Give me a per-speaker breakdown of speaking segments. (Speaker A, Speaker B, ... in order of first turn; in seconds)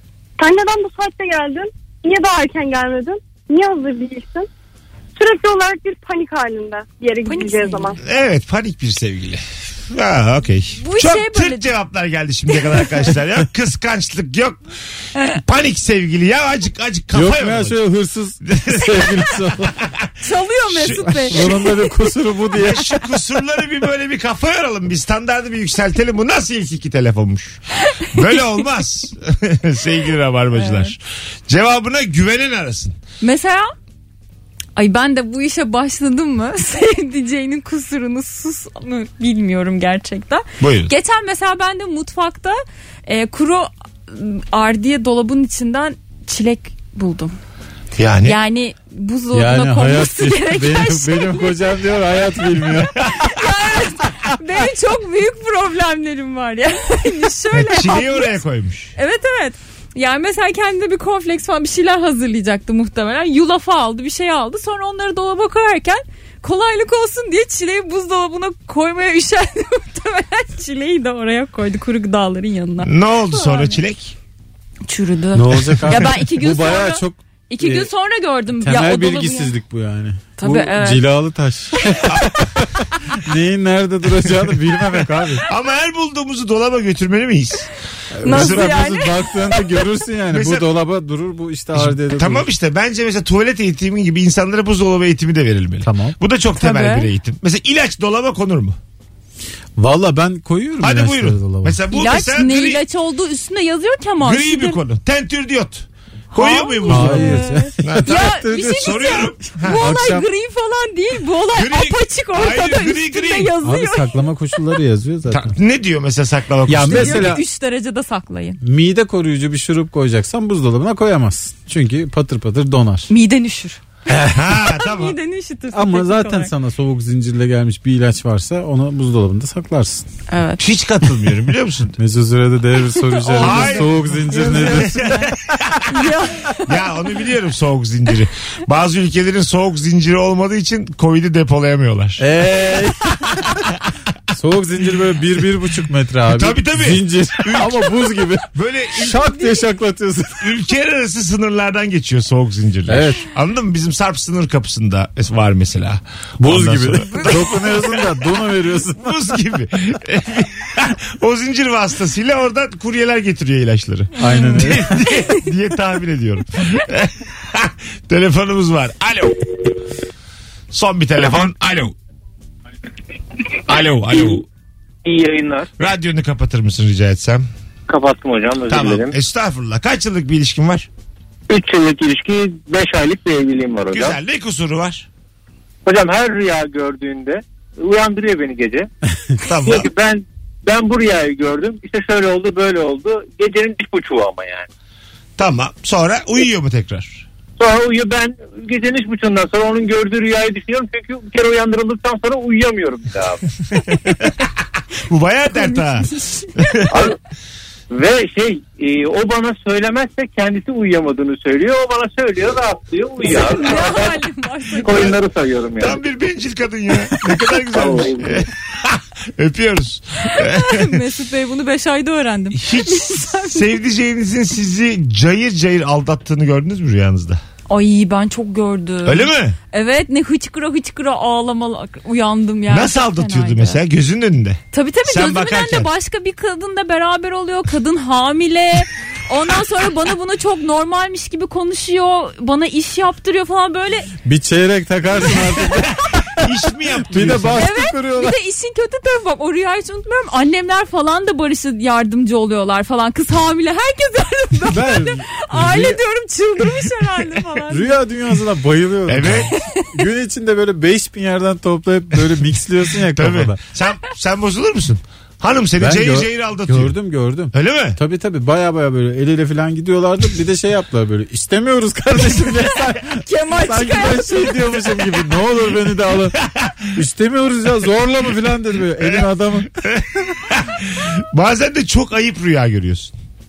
Speaker A: 0.4-4.5, 5.2-8.0
Speaker B: 7.2-8.0, 10.8-11.7, 12.5-13.2, 15.2-15.4, 20.2-21.9, 30.5-30.9, 33.2-33.7, 34.8-47.4, 48.2-51.8, 53.1-58.4, 59.0-73.8, 74.9-79.5, 80.4-81.1, 88.2-89.3, 96.6-97.1, 101.9-104.8, 106.3-114.8, 116.8-118.6, 123.1-123.8, 124.7-126.5, 130.3-130.6, 132.9-136.9, 164.3-164.7, 205.6-206.5, 213.3-215.1, 220.3-223.8, 227.7-233.8, 234.7-244.1, 247.5-258.0, 273.2-275.0
Speaker C: 8.0-14.6, 15.3-17.8, 18.4-20.1, 20.7-21.5, 22.6-33.0, 40.6-40.9, 48.0-48.4, 57.5-58.9, 72.8-74.2, 82.1-82.5, 85.5-87.7, 88.2-88.8, 90.3-90.7, 91.7-98.8, 100.8-102.8, 104.2-109.8, 111.5-113.5, 115.3-117.4, 124.3-125.2, 130.6-132.0, 133.3-136.1, 136.7-142.2, 146.3-149.4, 150.4-158.2, 159.0-169.7, 170.7-171.9, 173.7-174.5, 175.8-177.5, 178.7-180.9, 183.9-185.1, 189.4-189.9, 195.4-197.3, 205.1-207.0, 215.8-221.0, 222.5-227.4, 229.1-229.6, 232.7-235.9, 246.4-247.7, 259.1-259.5, 263.1-267.0, 267.5-268.0, 276.5-276.8, 279.0-283.2
Speaker D: 17.1-19.8, 21.1-22.8, 49.3-53.1, 75.3-77.9, 78.6-85.4, 88.1-92.5, 95.8-96.2, 99.8-101.8, 106.9-110.3, 113.6-115.6, 116.7-117.4, 118.6-123.1, 124.1-124.5, 125.7-130.1, 132.0-135.2, 142.2-143.6, 144.3-150.5, 152.9-153.2, 156.4-159.1, 164.2-165.0, 244.2-246.5, 247.0-248.3, 254.7-256.0, 257.7-263.6, 265.8-276.4, 276.9-279.7
Speaker E: 175.1-175.7, 177.9-179.1, 181.5-184.2, 185.9-188.9, 189.7-194.7, 197.6-203.4, 206.9-207.2, 207.9-214.1, 214.8-216.0, 217.7-218.4